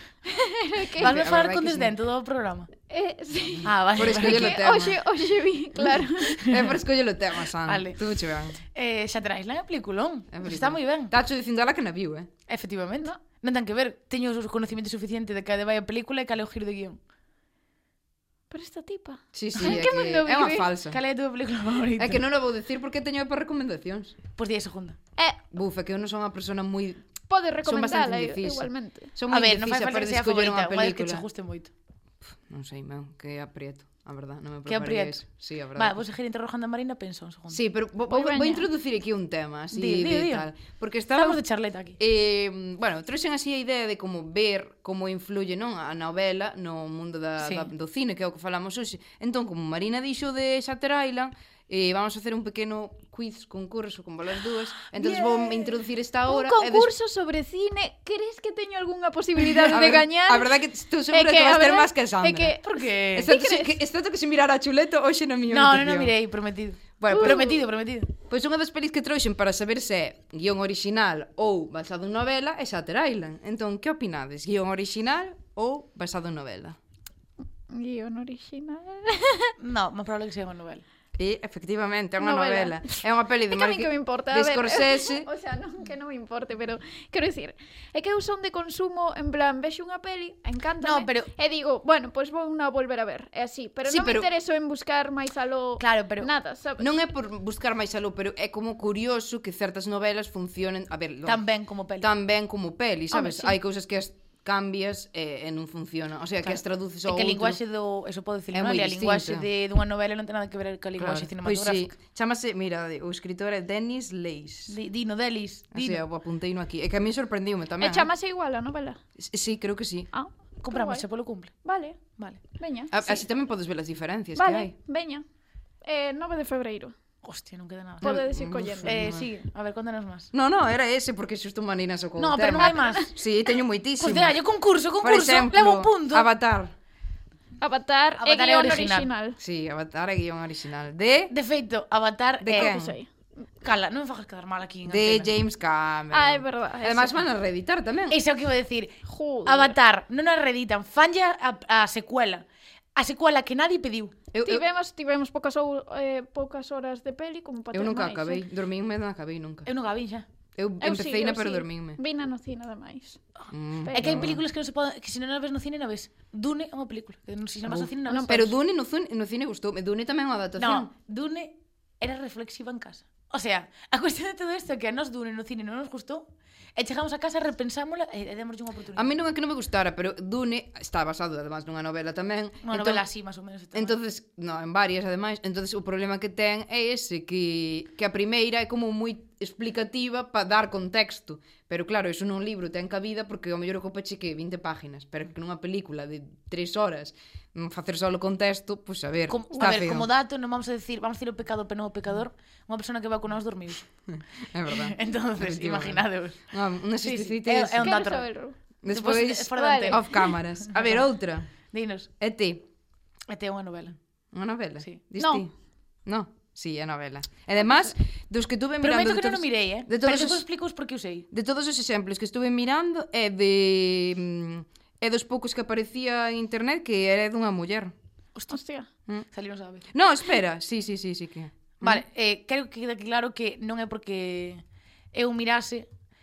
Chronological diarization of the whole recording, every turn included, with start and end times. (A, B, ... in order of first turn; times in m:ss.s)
0:00.2-0:01.1 A
0:01.0-0:01.9 B
0:01.0-0:02.7 C
0:02.9-0:06.6 A
0:03.6-0:04.6 C
0:04.0-0:05.0 B
0:06.4-0:06.7 C
0:06.4-0:08.6 B
0:07.6-0:11.2 C
0:10.3-0:12.3 B
0:12.5-0:17.0 C
0:18.5-0:20.7 A
0:19.3-0:21.0 B
0:20.9-0:22.2 C
0:22.0-0:24.2 B
0:24.4-0:25.0 C
0:25.5-0:27.0 B
0:27.3-0:29.1 A
0:27.6-0:31.2 B
0:29.3-0:31.7 C
0:32.2-0:36.1 B
0:34.7-0:35.2 C
0:35.8-0:37.6 C
0:37.5-0:41.4 B
0:38.1-0:38.7 A
0:39.7-0:40.5 C
0:41.1-0:42.0 C
0:42.0-0:56.9 B
0:47.4-0:47.7 C
0:55.0-0:55.5 C
0:56.3-1:00.6 A
0:59.7-1:02.6 B
1:01.1-1:03.8 A
1:02.6-1:03.3 C
1:03.2-1:06.1 B
1:05.5-1:08.1 C
1:07.0-1:07.5 B
1:07.1-1:07.6 A
1:08.2-1:16.8 B
1:17.7-1:19.5 A
1:19.6-1:20.8 C
1:21.2-1:25.3 B
1:22.2-1:36.9 A
1:30.8-1:31.3 C
1:33.9-1:34.3 B
1:35.8-1:36.3 C
1:36.8-1:41.4 B
1:41.2-1:42.1 C
1:42.0-1:47.6 B
1:43.1-1:43.6 A
1:46.4-1:51.9 C
1:48.5-1:49.5 B
1:51.0-1:54.8 B
1:54.7-1:56.0 C
1:55.7-1:58.1 B
1:57.8-1:59.0 A
1:59.2-2:00.1 B
2:00.1-2:01.0 A
2:00.6-2:01.5 C
2:01.6-2:02.0 A
2:02.2-2:02.4 C
2:02.6-2:03.2 A
2:02.9-2:04.7 B
2:04.4-2:05.2 A
2:05.8-2:07.0 A
2:07.2-2:08.2 C
2:08.0-2:09.0 A
2:08.0-2:09.3 B
2:08.8-2:10.3 C
2:10.3-2:14.4 B
2:12.2-2:13.1 C
2:12.6-2:13.1 A
2:14.0-2:16.3 C
2:15.0-2:16.7 B
2:17.6-2:19.4 A
2:18.2-2:19.1 C
2:19.4-2:21.3 B
2:21.3-2:22.7 C
2:22.4-2:23.0 B
2:22.6-2:23.1 A
2:23.6-2:25.3 C
2:24.9-2:28.2 B
2:26.1-2:27.2 A
2:28.1-2:32.4 C
2:29.1-2:29.8 A
2:33.0-2:34.1 C
2:34.3-2:34.6 B
2:34.4-2:38.4 A
2:37.7-2:39.7 B
2:39.7-2:40.3 C
2:40.6-2:42.0 B
2:40.8-2:43.2 A
2:43.5-2:44.4 B
2:43.8-2:44.3 A
2:43.9-2:48.5 C
2:47.7-2:50.9 B
2:48.1-2:48.4 A
2:50.6-2:59.2 C
2:59.0-3:03.0 B
3:02.6-3:04.0 C
3:03.7-3:20.1 B
3:19.3-3:23.8 C
3:24.1-3:28.0 B
3:24.7-3:28.3 C
3:27.8-3:28.6 A
3:28.8-3:31.5 B
3:28.9-3:31.0 C
3:29.6-3:30.3 A
3:31.7-3:32.1 C
3:32.2-3:32.7 B
3:33.3-3:34.0 C
3:34.3-3:35.5 B
3:35.2-3:35.5 A
3:36.1-3:40.4 B
3:38.8-3:41.3 C
3:41.3-3:47.9 B
3:48.5-3:48.9 A
3:49.3-3:49.9 C
3:49.9-3:52.0 B
3:51.8-3:55.9 C